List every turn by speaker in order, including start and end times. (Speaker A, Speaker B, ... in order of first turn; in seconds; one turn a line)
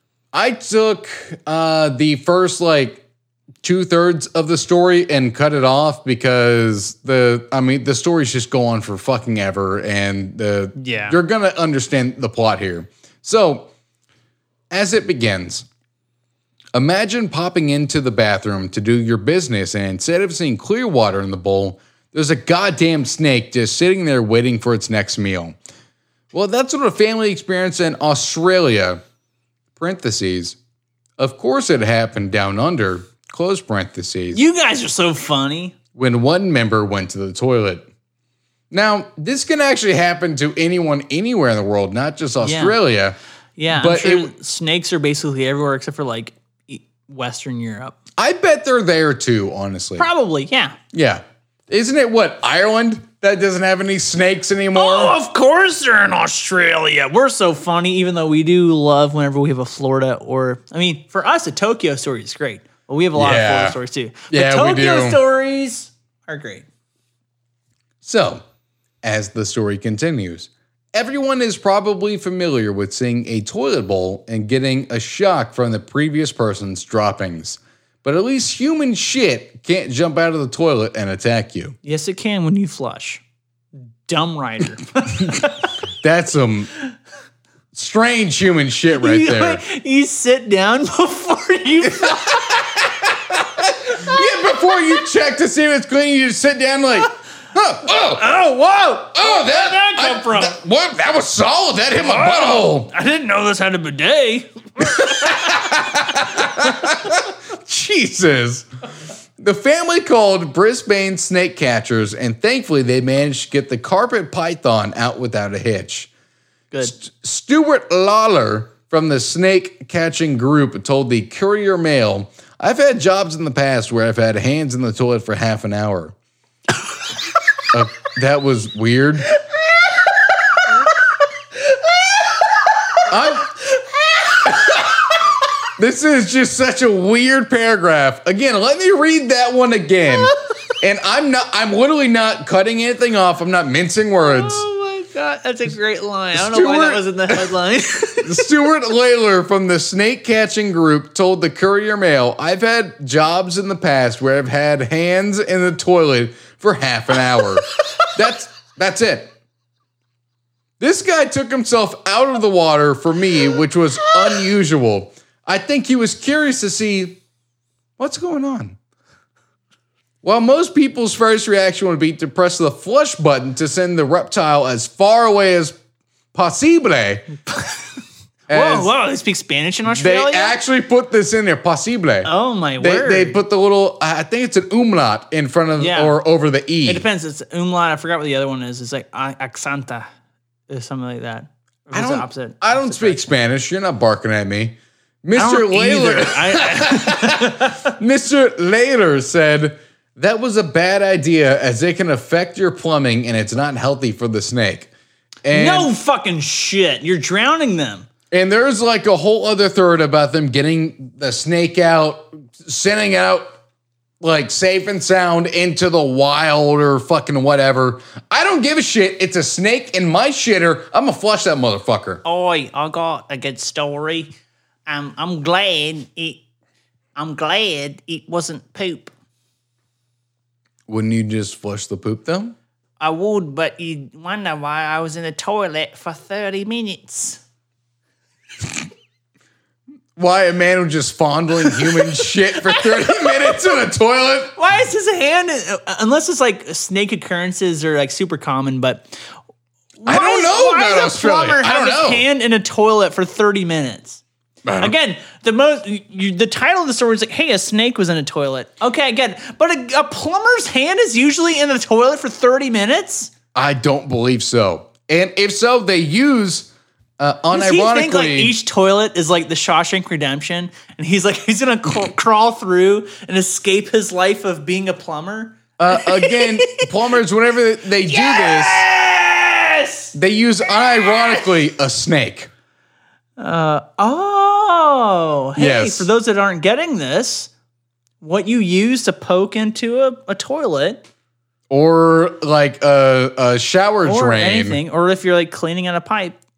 Speaker A: 0.3-3.0
Speaker A: 3.6-13.7
Speaker B: 10.8-11.2
Speaker A: 14.7-15.7
Speaker A: 16.8-25.6
Speaker A: 26.3-29.0
Speaker A: 29.8-30.6
Speaker A: 31.2-34.4
Speaker B: 34.3-35.8
Speaker A: 36.0-37.9
Speaker A: 38.7-43.2
Speaker B: 42.4-42.8
Speaker B: 43.6-48.0
Speaker A: 43.7-44.3
Speaker A: 48.2-50.1
Speaker B: 50.0-50.8
Speaker A: 50.9-55.2
Speaker B: 54.7-66.7
Speaker A: 63.1-63.8
Speaker A: 64.3-65.2
Speaker A: 68.0-68.4
Speaker A: 69.0-81.8
Speaker B: 81.8-83.2
Speaker B: 84.1-85.7
Speaker A: 85.2-85.5
Speaker A: 86.0-86.7
Speaker A: 87.7-89.6
Speaker B: 89.0-92.7
Speaker A: 91.9-98.3
Speaker B: 93.9-94.2
Speaker B: 98.1-100.6
Speaker A: 99.1-102.9
Speaker B: 102.0-106.9
Speaker A: 104.8-108.7
Speaker A: 109.4-116.1
Speaker A: 116.8-126.2
Speaker A: 127.7-129.3
Speaker A: 133.1-133.5
Speaker B: 133.8-134.6
Speaker A: 134.5-134.8
Speaker A: 135.8-144.6
Speaker B: 144.2-148.5
Speaker A: 146.3-147.5
Speaker A: 148.2-159.3
Speaker A: 160.8-167.2
Speaker A: 168.0-168.8
Speaker A: 170.2-175.8
Speaker A: 176.3-177.3
Speaker B: 177.5-177.8
Speaker A: 178.5-178.9
Speaker B: 178.5-180.6
Speaker A: 179.9-187.1
Speaker B: 182.2-183.4
Speaker B: 185.8-186.2
Speaker B: 186.8-190.1
Speaker B: 190.7-193.3
Speaker A: 191.9-204.9
Speaker B: 195.4-197.9
Speaker A: 205.4-205.9
Speaker B: 205.5-208.1
Speaker A: 208.3-213.6
Speaker A: 214.2-222.2
Speaker B: 222.2-224.3
Speaker B: 224.9-226.5
Speaker B: 227.2-229.1
Speaker A: 230.9-232.6
Speaker B: 233.0-237.4
Speaker A: 240.2-244.5
Speaker B: 241.7-243.6
Speaker B: 244.6-249.2
Speaker B: 250.0-254.2
Speaker A: 250.1-252.2
Speaker A: 254.7-254.9
Speaker B: 254.8-263.3
Speaker A: 263.6-268.6
Speaker B: 267.5-276.9
Speaker A: 275.8-278.9
Speaker B: 278.0-280.1
Speaker A: 280.1-282.5
Speaker B: 280.8-281.5
Speaker B: 283.4-287.5
Speaker A: 285.6-286.1
Speaker B: 288.2-291.0
Speaker A: 291.7-294.8
Speaker B: 294.1-296.4